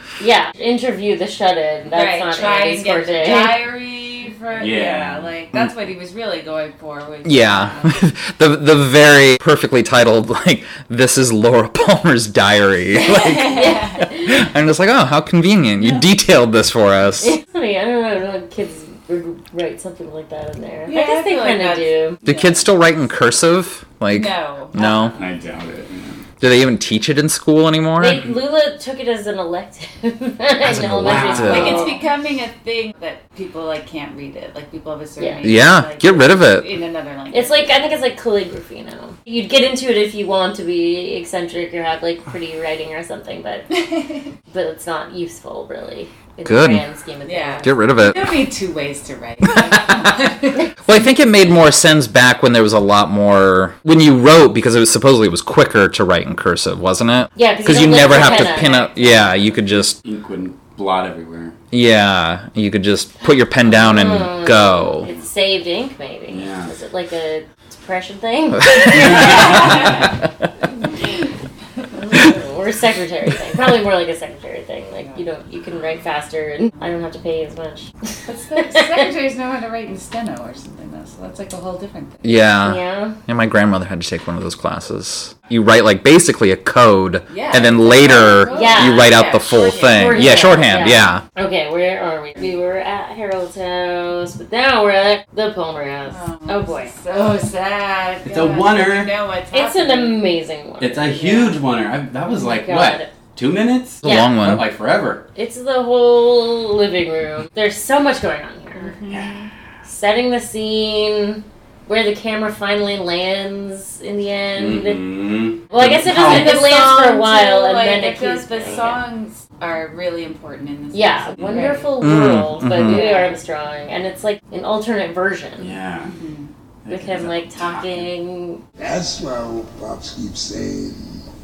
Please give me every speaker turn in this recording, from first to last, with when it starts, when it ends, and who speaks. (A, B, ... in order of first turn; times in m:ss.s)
0:00.2-0:03.6 A
0:01.9-0:08.0 B
0:04.6-0:05.3 C
0:07.2-0:17.4 D
0:12.9-0:14.1 B
0:17.2-0:22.2 A
0:20.9-0:22.7 B
0:22.2-0:25.2 D
0:24.1-0:25.2 B
0:25.2-0:26.2 C
0:26.4-0:28.3 D
0:28.0-0:32.0 A
0:30.6-0:31.9 D
0:31.0-0:31.9 C
0:31.4-0:37.8 B
0:35.2-0:35.5 A
0:35.4-0:36.7 D
0:37.3-0:43.7 A
0:43.7-0:44.3 B
0:44.5-0:47.7 A
0:46.4-0:46.8 D
0:47.2-0:50.7 B
0:47.6-0:48.5 D
0:49.5-0:50.1 D
0:50.8-1:00.0 D
0:57.4-0:59.0 A
1:00.0-1:01.6 C
1:01.7-1:05.1 D
1:03.6-1:09.9 A
1:06.3-1:06.7 C
1:08.7-1:09.3 D
1:09.2-1:09.9 B
1:12.0-1:17.9 A
1:18.3-1:22.3 B
1:18.6-1:19.0 A
1:22.2-1:31.2 D
1:22.6-1:23.2 A
1:27.3-1:30.8 B
1:28.5-1:36.9 A
1:36.1-1:40.3 B
1:38.2-1:39.1 C
1:39.5-1:41.6 A
1:40.8-1:45.2 C
1:41.2-1:41.5 B
1:42.4-1:43.1 A
1:44.0-1:44.7 D
1:44.0-1:44.4 A
1:45.4-1:49.0 A
1:48.8-1:49.5 B
1:49.1-1:49.5 C
1:49.8-1:55.0 A
1:54.6-1:56.7 C
1:55.7-1:59.0 A
1:56.0-2:01.9 B
2:00.9-2:05.8 A
2:01.4-2:01.7 C
2:02.0-2:03.1 D
2:02.8-2:03.4 B
2:05.6-2:06.1 C
2:06.1-2:06.5 B
2:06.8-2:08.1 C
2:06.9-2:08.6 A
2:08.8-2:11.0 E